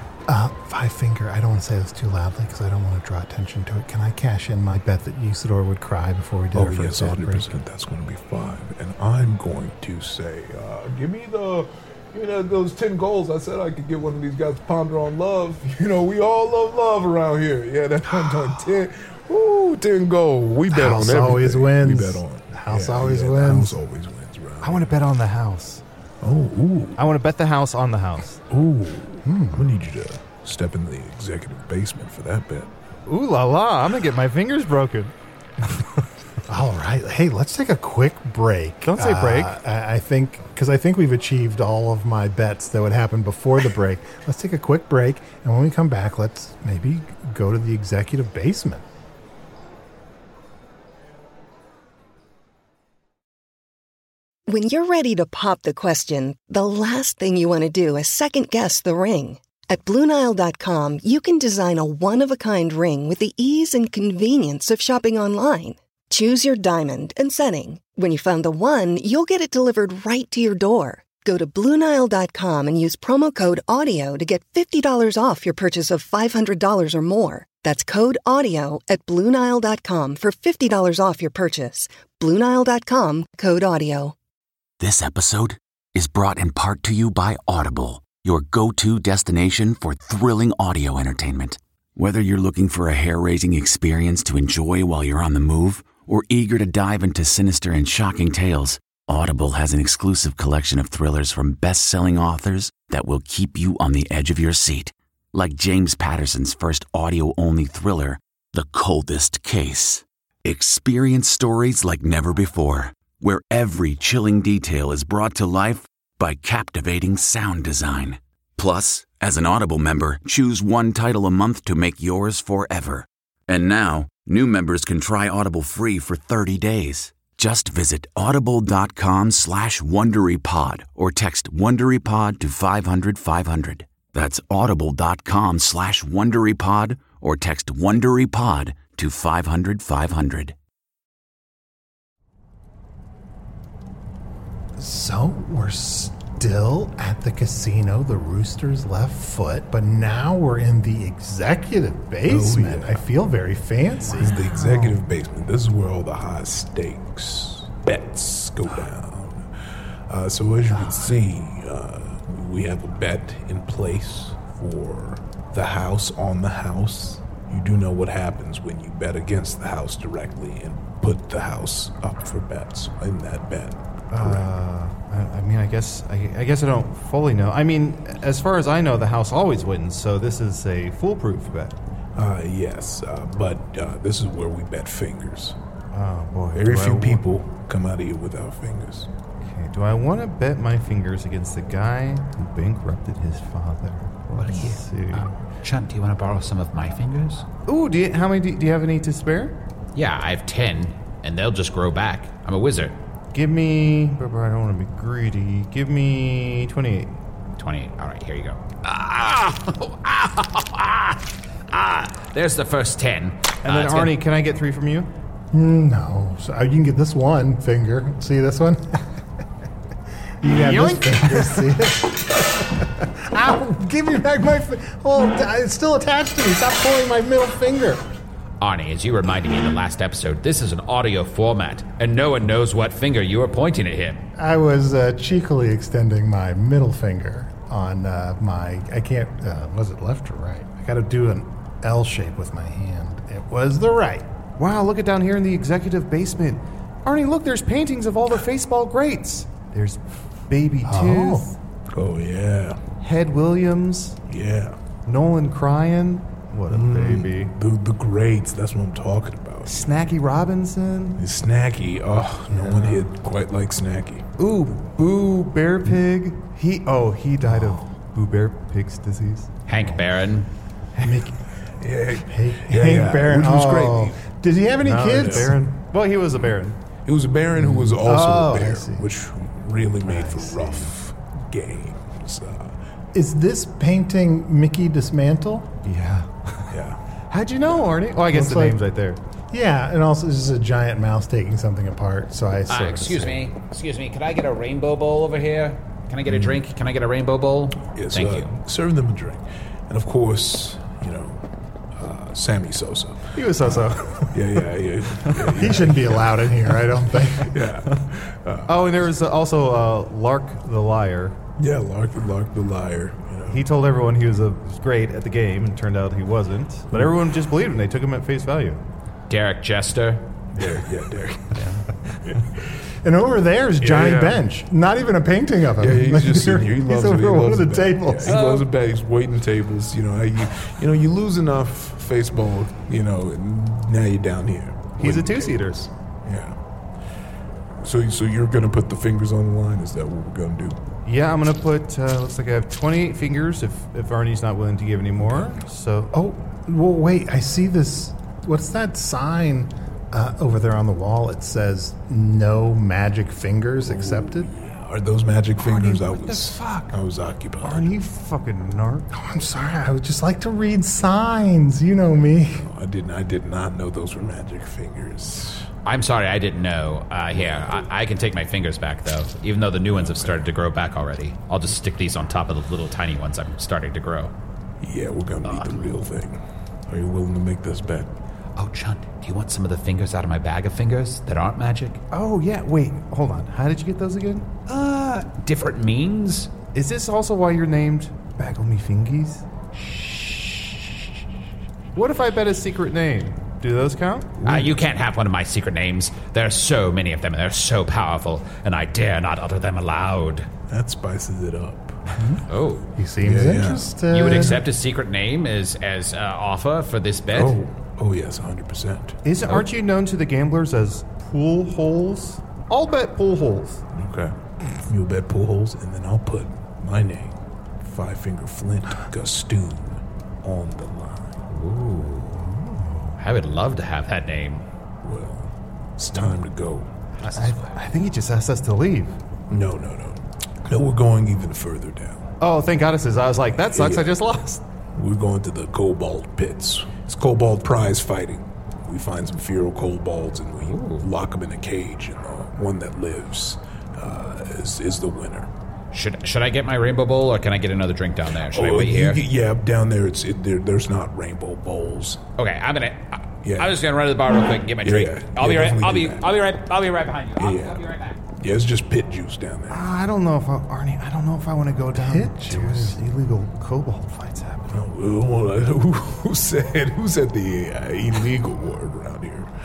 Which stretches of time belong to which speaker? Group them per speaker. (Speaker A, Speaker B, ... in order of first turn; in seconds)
Speaker A: 0.3-7.5, 20.7-23.8, 29.2-29.7, 36.5-48.9, 144.8-155.0, 160.7-161.1, 215.5-219.1, 220.4-228.0, 234.4-244.2, 250.8-251.5, 262.5-262.9, 271.0-271.4, 272.2-275.6, 277.6-279.1, 280.0-280.9, 283.1-285.7, 288.3-288.8, 289.5-293.4, 305.6-307.6, 323.0-328.4, 346.1-354.5, 359.1-362.6, 402.9-404.6, 462.0-463.0
Speaker B: 6.5-24.9, 26.2-27.0, 28.5-32.7, 152.2-153.0, 154.1-159.4, 160.1-174.4, 182.2-185.6, 186.6-189.1, 251.9-252.8, 254.3-254.8, 256.7-259.9, 261.2-264.2, 271.8-274.2, 275.1-275.5, 277.1-282.8, 286.7-287.0, 297.9-301.4, 301.9-303.8, 304.3-306.5, 307.4-309.0, 311.6-313.7, 320.6-321.6, 322.2-322.7, 323.8-324.4, 325.8-336.6, 337.8-340.8, 353.8-357.9, 362.6-365.7, 367.4-367.8, 369.9-370.4, 374.8-378.1, 394.4-394.7, 400.7-402.1, 403.2-404.5, 407.3-409.6, 413.9-414.3, 414.9-421.4, 425.0-426.9, 429.5-432.2, 433.7-434.2, 434.9-445.5, 448.5-452.2, 453.4-453.8, 454.8-456.3, 457.4-457.8, 458.4-459.8, 464.7-469.5
Speaker C: 24.6-25.8, 26.9-28.4, 33.1-35.1, 38.8-39.6, 174.1-181.8, 185.9-187.2, 189.4-195.3, 197.7-199.6, 203.3-207.2, 213.6-215.1, 220.4-221.8, 244.6-251.6, 253.0-254.2, 255.1-257.5, 259.6-261.2, 264.4-269.5, 270.9-271.3, 274.8-276.8, 285.8-286.7, 287.3-289.2, 303.3-304.7, 305.2-306.0, 308.6-311.4, 313.5-318.8, 321.5-321.8, 335.0-335.9, 341.1-346.1, 355.6-356.9, 357.6-359.1, 382.1-384.5, 386.7-389.4, 391.9-394.3, 409.2-413.8, 422.5-423.2, 427.2-429.2, 432.4-434.6, 459.7-464.9
Speaker D: 54.5-84.2
Speaker E: 84.8-140.6
Speaker F: 194.4-197.4, 199.9-202.9, 207.6-214.2, 228.6-234.2, 269.7-270.5, 292.7-298.5, 319.3-320.3, 328.2-328.7, 365.9-374.3, 375.4-376.0, 378.6-382.0, 384.7-386.5, 389.7-391.1, 394.4-400.5, 402.5-402.9, 404.1-407.6, 421.5-422.6, 423.2-424.6, 427.2-427.6, 440.6-441.1, 445.9-449.2, 452.4-458.2